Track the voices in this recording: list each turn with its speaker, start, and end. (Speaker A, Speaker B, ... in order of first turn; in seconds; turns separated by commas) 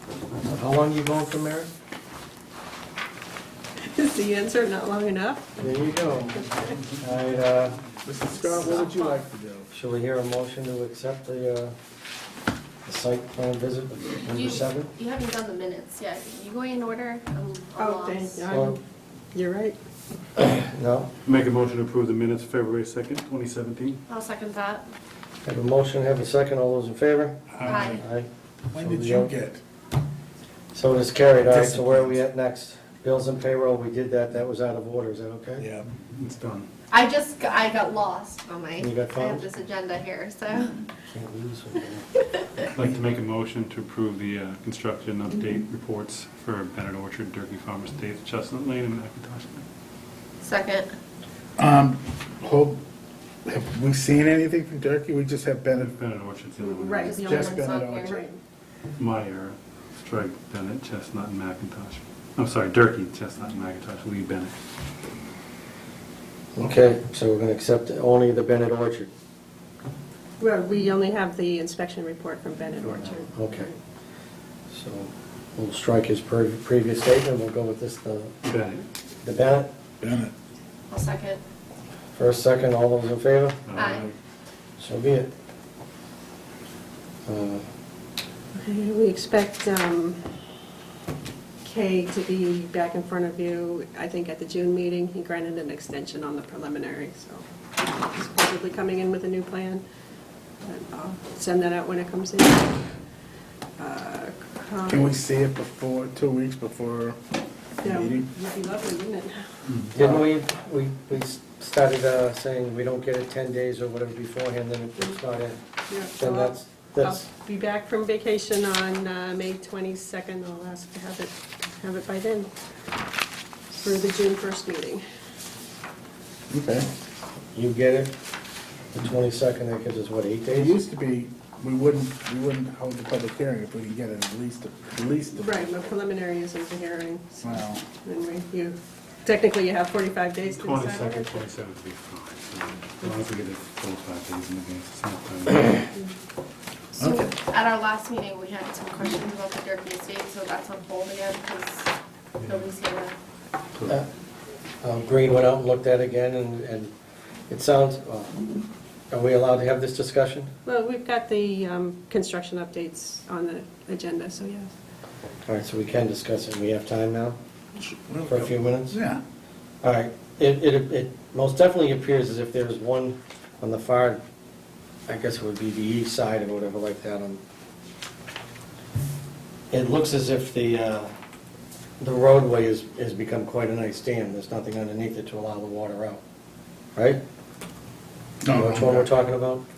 Speaker A: 0.4-1.7, Speaker B: 3.8-5.5, Speaker A: 5.6-6.4, Speaker B: 6.4-6.8, Speaker A: 7.0-7.8, Speaker C: 8.0-9.7, Speaker A: 8.6-8.9, Speaker D: 8.6-9.2, Speaker A: 9.7-11.7, Speaker A: 12.9-14.9, Speaker D: 14.3-18.5, Speaker B: 17.8-18.8, Speaker A: 18.5-18.8, Speaker B: 19.3-19.8, Speaker A: 20.4-21.1, Speaker E: 21.2-24.0, Speaker D: 24.1-24.9, Speaker A: 25.4-29.3, Speaker E: 27.5-27.9, Speaker D: 27.6-28.0, Speaker C: 28.7-29.6, Speaker A: 30.7-35.7, Speaker C: 31.4-32.2, Speaker C: 35.6-35.9, Speaker E: 35.9-36.7, Speaker D: 36.9-40.8, Speaker A: 38.8-39.5, Speaker A: 41.1-42.1, Speaker E: 42.8-49.6, Speaker D: 50.4-50.9, Speaker C: 51.6-52.8, Speaker C: 53.5-55.9, Speaker E: 55.8-57.1, Speaker B: 56.6-58.4, Speaker D: 57.0-58.2, Speaker C: 57.2-58.2, Speaker E: 59.0-64.5, Speaker A: 66.5-69.1, Speaker B: 70.4-73.8, Speaker A: 72.8-73.7, Speaker A: 74.7-78.3, Speaker E: 78.5-78.8, Speaker A: 79.2-79.7, Speaker C: 80.0-80.3, Speaker D: 80.9-81.4, Speaker A: 82.2-83.6, Speaker E: 83.7-84.1, Speaker D: 83.7-84.1, Speaker A: 84.8-85.3, Speaker A: 87.2-87.6, Speaker B: 88.5-90.2, Speaker B: 91.6-99.8, Speaker B: 100.6-102.9, Speaker B: 103.8-105.1, Speaker C: 104.9-107.2, Speaker C: 107.8-108.3, Speaker B: 107.8-109.5, Speaker E: 109.7-109.9, Speaker A: 109.9-115.6, Speaker C: 110.0-110.2, Speaker B: 115.9-122.5, Speaker A: 116.2-117.3, Speaker B: 123.7-125.0, Speaker C: 126.5-126.9, Speaker A: 127.5-128.1, Speaker A: 128.9-130.8, Speaker C: 130.5-135.7, Speaker B: 135.4-141.4, Speaker C: 137.4-137.8, Speaker E: 140.6-145.9, Speaker C: 147.0-147.3, Speaker D: 147.0-153.1, Speaker A: 154.8-156.9, Speaker A: 157.5-158.4, Speaker A: 159.1-160.5, Speaker B: 160.6-164.7, Speaker A: 165.5-167.4, Speaker C: 167.8-169.2, Speaker A: 168.3-169.0, Speaker A: 169.8-174.2, Speaker A: 175.1-177.4, Speaker A: 179.7-181.1, Speaker A: 182.0-186.2, Speaker A: 186.9-187.2, Speaker C: 188.4-189.1, Speaker A: 188.5-189.6